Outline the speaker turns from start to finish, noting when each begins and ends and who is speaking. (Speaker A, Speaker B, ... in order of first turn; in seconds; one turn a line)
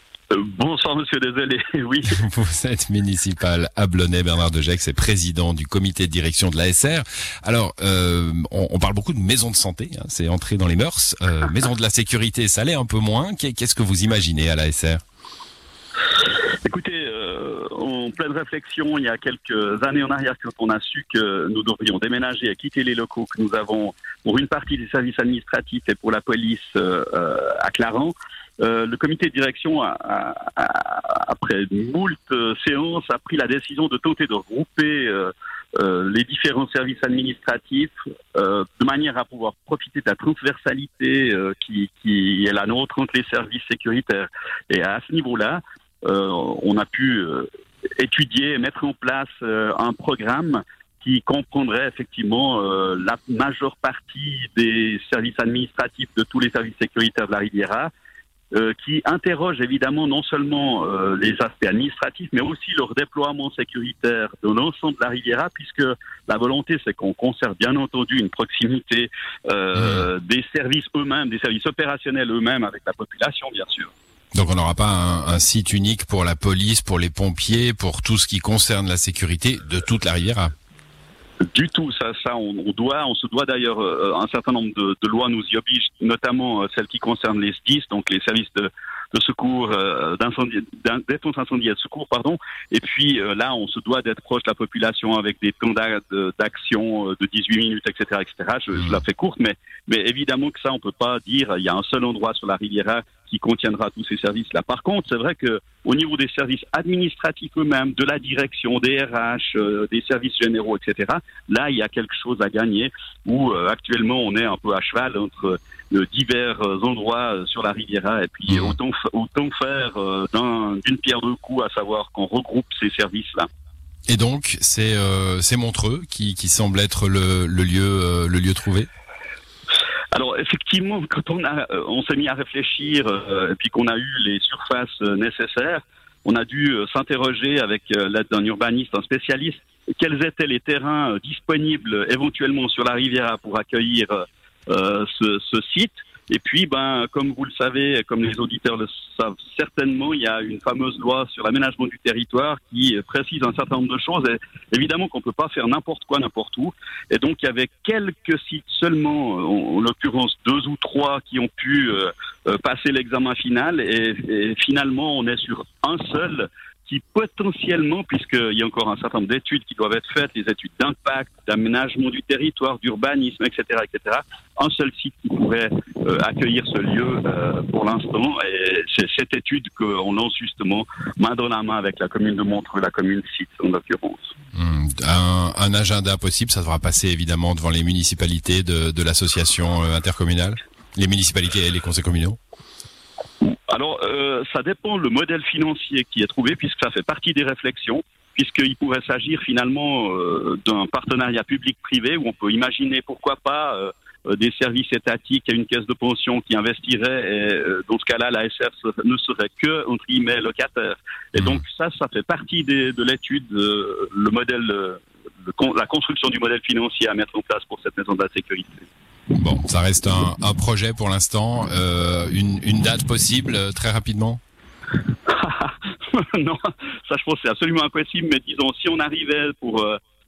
Speaker A: 0.3-2.2
Speaker B: 2.1-15.0
Speaker A: 16.6-57.9
Speaker A: 58.5-73.9
Speaker B: 69.8-70.1
Speaker B: 74.3-80.5
Speaker A: 81.4-123.5
Speaker B: 118.5-118.8
Speaker B: 124.1-128.9
Speaker A: 130.1-184.3
Speaker B: 184.6-192.4
Speaker A: 193.4-218.9
Speaker B: 219.3-224.4
Speaker A: 225.2-230.0